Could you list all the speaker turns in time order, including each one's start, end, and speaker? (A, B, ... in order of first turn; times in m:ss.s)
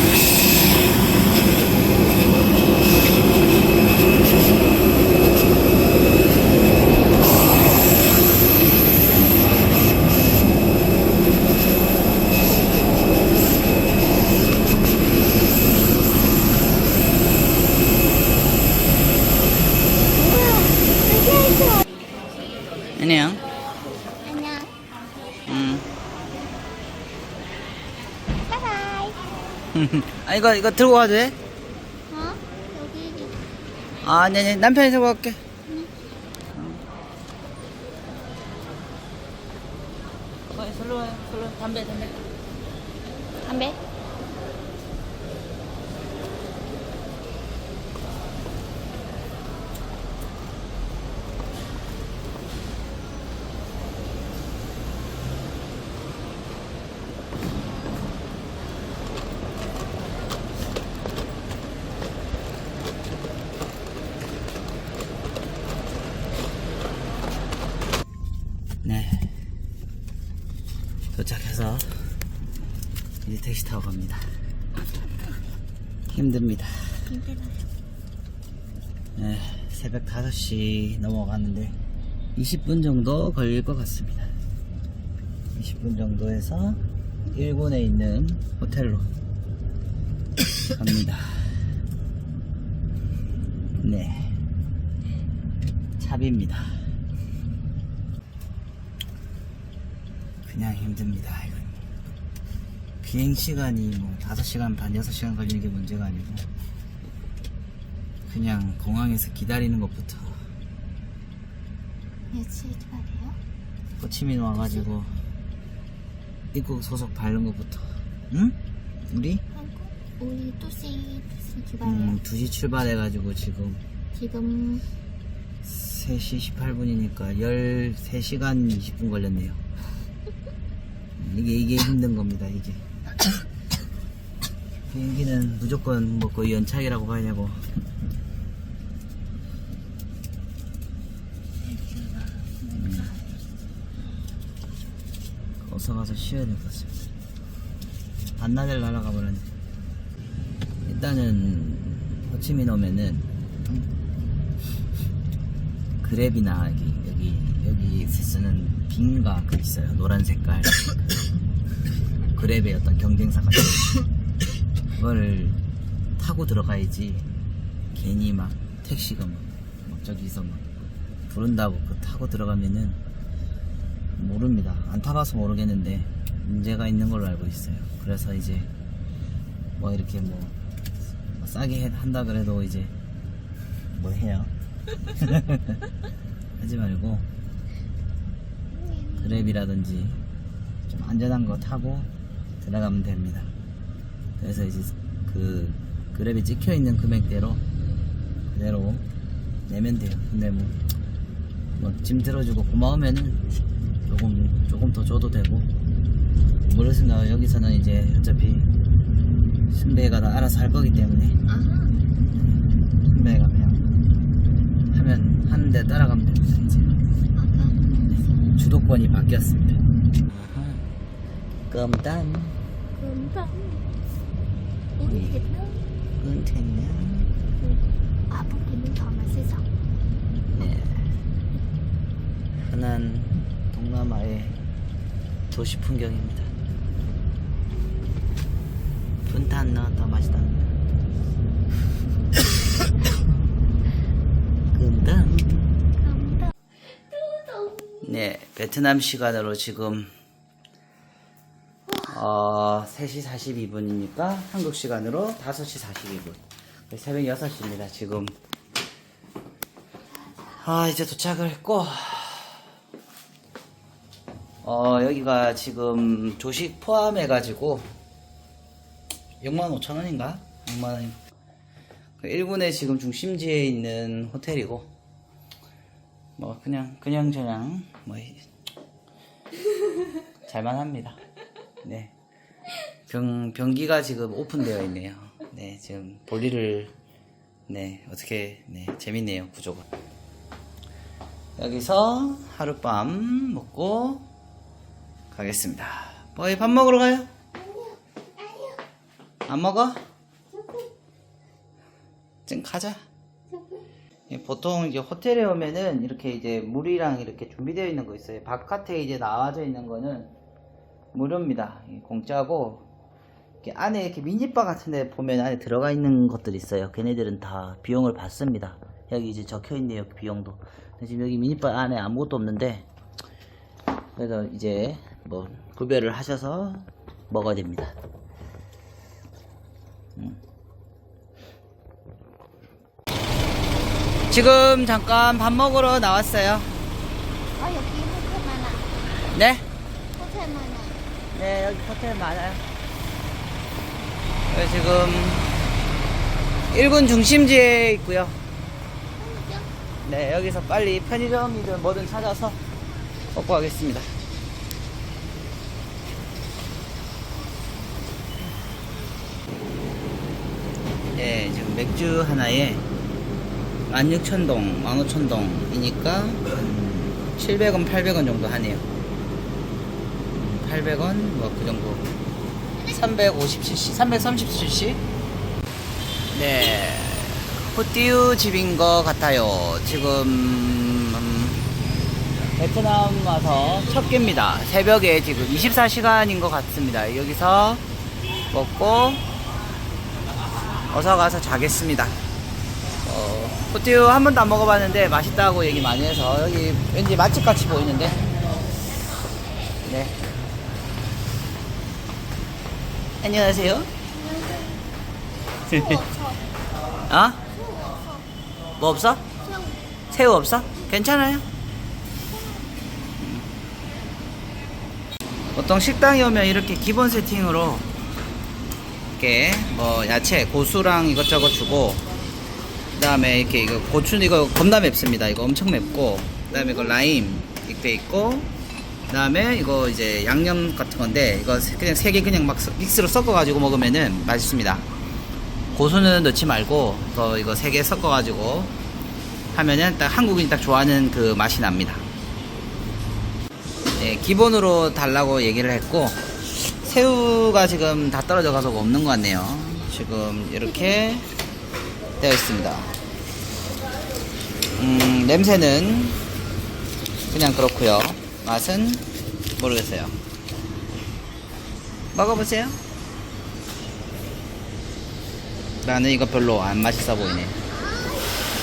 0:20.2-0:21.8 A
0:23.0-0:23.4 B
0:24.2-0:24.7 A
0:25.5-0:25.9 B
0:28.5-0:29.2 A
0:29.7-0:31.4 B
0:32.1-0:33.4 A
0:34.0-0:35.4 B
0:35.7-0:35.9 A
0:36.5-0:36.8 B
0:40.5-0:42.2 B
0:43.4-0:43.8 A
1:08.8-1:09.3 B
1:11.1-1:12.2 B
1:13.2-1:14.2 B
1:16.1-1:17.1 B
1:17.0-1:17.6 A
1:19.2-1:21.8 B
1:22.4-1:24.3 B
1:25.6-1:26.8 B
1:27.3-1:29.1 B
1:30.7-1:31.6 B
1:33.8-1:34.4 B
1:36.0-1:36.8 B
1:40.4-1:41.8 B
1:43.0-1:46.5 B
1:48.3-1:50.4 B
1:52.3-1:53.4 A
1:54.0-1:55.2 B
1:56.5-1:59.4 B
1:59.5-2:02.2 A
2:01.8-2:03.8 B
2:04.1-2:04.8 A
2:05.6-2:09.6 B
2:11.2-2:12.8 B
2:14.9-2:17.7 B
2:21.8-2:23.2 A
2:22.7-2:23.2 B
2:25.6-2:26.9 B
2:28.4-2:29.5 B
2:30.8-2:33.9 B
2:36.0-2:40.8 B
2:42.4-2:43.9 B
2:45.0-2:45.6 B
2:46.2-2:47.3 B
2:47.9-2:50.6 B
2:51.3-2:53.0 B
2:54.2-2:58.7 B
2:59.8-3:00.6 B
3:01.3-3:02.9 B
3:03.9-3:04.5 B
3:05.1-3:05.8 B
3:06.6-3:07.2 B
3:08.8-3:09.5 A
3:09.2-3:10.2 B
3:10.9-3:12.1 B
3:12.6-3:13.5 B
3:14.4-3:17.6 B
3:18.5-3:19.0 B
3:19.7-3:20.8 B
3:21.8-3:23.4 B
3:24.1-3:25.7 B
3:26.7-3:28.7 B
3:29.7-3:31.4 B
3:31.4-3:32.0 A
3:33.1-3:33.9 B
3:34.9-3:37.0 B
3:37.3-3:38.6 A
3:38.6-3:40.9 B
3:41.7-3:42.6 B
3:42.9-3:43.8 A
3:45.0-3:45.8 A
3:45.0-3:45.4 B
3:46.2-3:47.3 B
3:47.6-3:49.6 A
3:50.5-3:51.1 B
3:52.6-3:54.6 B
3:55.5-3:56.5 B
3:59.2-4:00.8 B
4:04.7-4:05.8 B
4:06.0-4:08.2 A
4:08.0-4:10.1 B
4:11.9-4:12.2 A
4:12.1-4:18.4 B
4:20.6-4:22.6 B
4:24.6-4:27.9 B
4:29.4-4:31.2 B
4:32.2-4:34.9 B
4:36.4-4:38.4 B
4:40.5-4:41.2 B
4:41.8-4:42.1 B
4:43.1-4:46.9 B
4:47.7-4:49.8 B
4:51.6-4:54.3 B
4:55.3-4:57.3 B
4:57.6-4:58.8 A
4:59.4-5:00.0 B
5:00.5-5:00.8 A
5:02.5-5:03.0 B
5:03.5-5:03.8 A
5:04.3-5:10.3 B
5:11.1-5:12.9 B
5:13.6-5:22.9 B
5:24.2-5:27.9 B
5:34.3-5:36.7 B
5:37.6-5:38.9 A
5:39.2-5:39.7 B
5:40.2-5:41.0 A
5:41.3-5:42.6 B
5:44.5-5:45.5 B
5:46.7-5:48.4 B
5:49.2-5:49.7 A
5:50.0-5:52.6 B
5:53.3-5:54.1 B
6:01.1-6:02.9 B
6:03.9-6:08.9 B
6:10.3-6:12.1 B
6:12.8-6:13.0 A
6:12.9-6:15.0 B
6:16.3-6:21.6 B
6:22.6-6:27.8 B
6:28.5-6:29.2 B
6:30.9-6:32.2 B
6:33.0-6:38.2 B
6:39.8-6:40.2 B
6:43.2-6:43.9 B
6:44.1-6:44.8 A
6:45.7-6:46.4 A
6:45.7-6:46.0 B
6:47.1-6:47.4 B
6:47.5-6:48.3 A
6:48.8-6:49.3 B
6:49.4-6:49.9 A
6:50.1-6:51.4 B
6:52.2-6:52.8 A
6:53.2-6:53.5 B
6:55.6-6:57.9 B
6:59.2-7:02.0 B
7:03.0-7:08.5 B
7:05.7-7:06.9 A
7:09.1-7:14.9 B
7:15.8-7:18.8 B
7:19.5-7:22.1 B
7:24.0-7:31.3 B
7:32.2-7:32.9 B
7:34.8-7:36.2 B
7:37.3-7:39.1 B
7:39.6-7:40.2 B
7:42.1-7:42.8 B
7:45.8-7:47.6 B
7:47.7-7:48.5 A